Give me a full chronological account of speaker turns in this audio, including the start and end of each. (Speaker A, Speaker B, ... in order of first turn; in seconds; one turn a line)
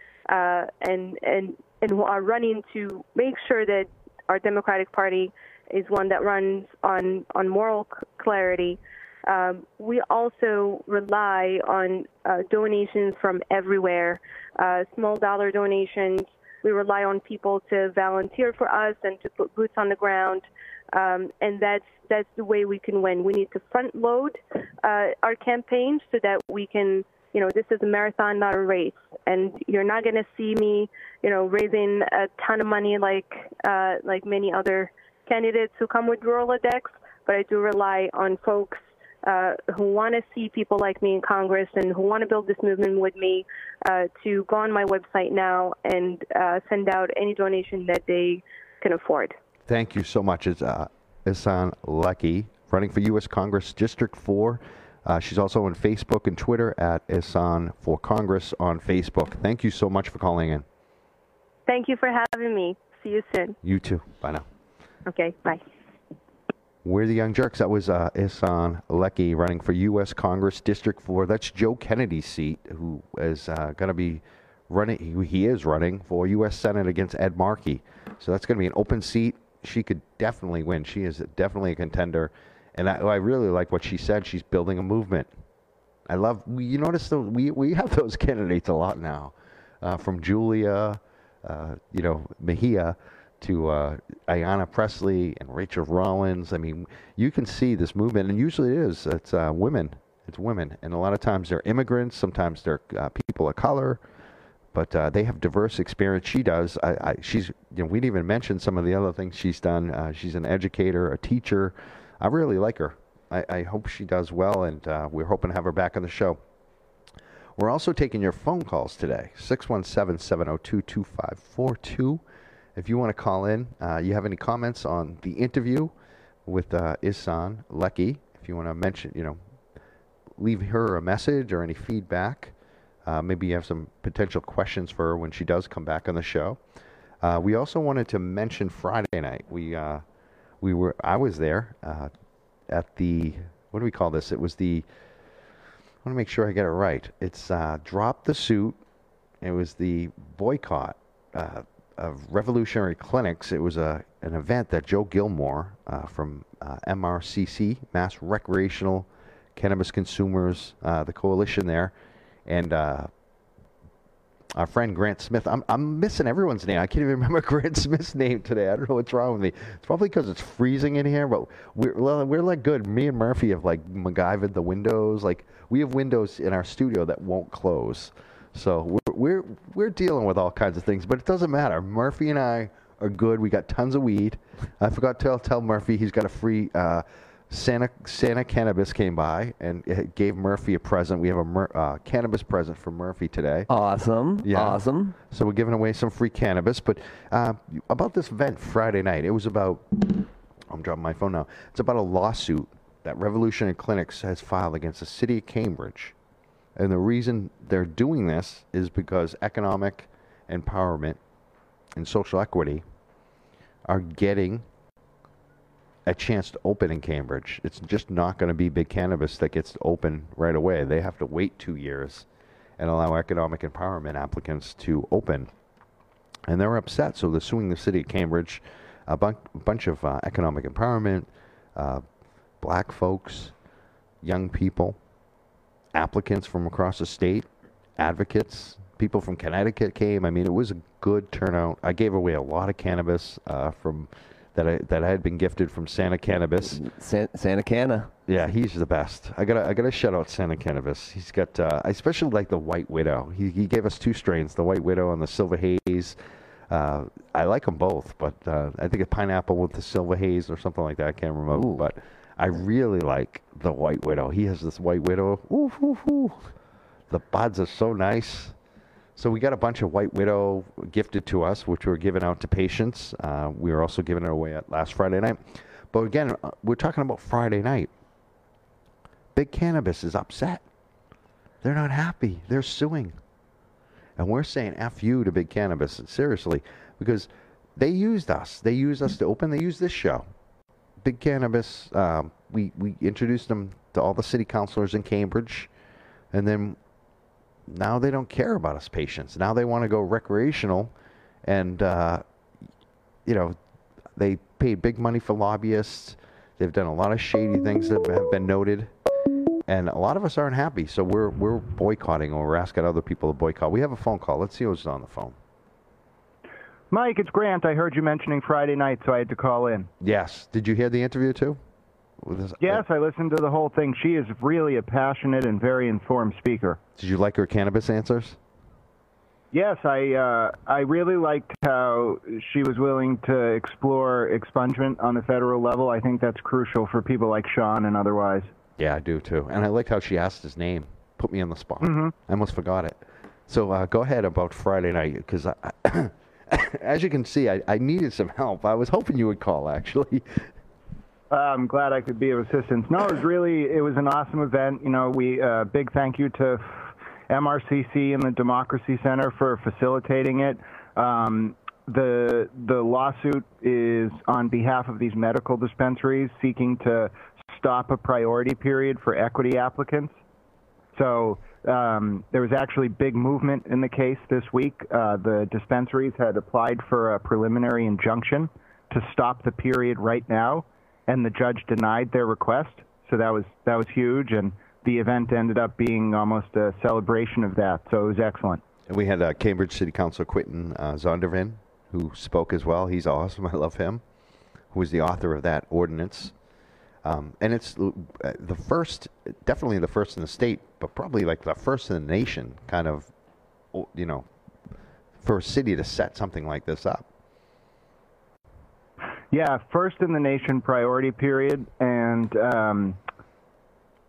Speaker A: 0.3-49.4
Speaker B: 49.7-60.6
Speaker A: 61.7-63.6
Speaker B: 63.6-64.5
Speaker A: 65.1-65.6
Speaker B: 66.8-85.3
Speaker B: 86.1-104.0
Speaker B: 104.7-116.4
Speaker B: 117.6-122.2
Speaker B: 122.8-125.9
Speaker B: 126.5-129.4
Speaker B: 130.4-132.5
Speaker B: 133.1-136.6
Speaker B: 137.2-140.0
Speaker B: 140.6-142.1
Speaker B: 142.7-144.8
Speaker B: 146.0-148.8
Speaker B: 149.4-161.9
Speaker B: 162.5-163.1
Speaker B: 164.5-193.7
Speaker C: 193.7-195.2
Speaker B: 194.4-206.1
Speaker B: 206.8-211.2
Speaker B: 212.0-212.8
Speaker B: 213.9-214.6
Speaker B: 216.1-222.2
Speaker B: 222.8-225.5
Speaker B: 226.5-232.0
Speaker B: 232.6-233.5
Speaker B: 234.2-235.0
Speaker B: 235.9-237.5
Speaker B: 238.0-246.8
Speaker C: 246.6-248.1
Speaker B: 248.3-256.2
Speaker B: 256.7-266.5
Speaker B: 267.1-268.5
Speaker B: 269.1-275.4
Speaker B: 275.9-277.9
Speaker B: 279.3-280.6
Speaker B: 281.6-283.2
Speaker B: 284.2-290.2
Speaker B: 291.0-295.7
Speaker B: 296.3-296.8
Speaker B: 297.7-300.9
Speaker B: 301.4-302.2
Speaker B: 303.2-303.6
Speaker B: 304.1-308.9
Speaker B: 309.7-315.3
Speaker D: 316.9-319.9
Speaker B: 320.0-321.6
Speaker B: 322.2-322.8
Speaker D: 322.6-326.8
Speaker B: 327.0-328.4
Speaker D: 329.5-338.5
Speaker B: 338.8-343.0
Speaker D: 341.8-342.1
Speaker B: 343.5-350.5
Speaker D: 351.3-370.1
Speaker D: 370.9-388.6
Speaker B: 388.9-394.0
Speaker B: 394.7-396.3
Speaker B: 397.0-403.1
Speaker B: 403.7-404.2
Speaker B: 405.2-407.1
Speaker D: 409.3-413.0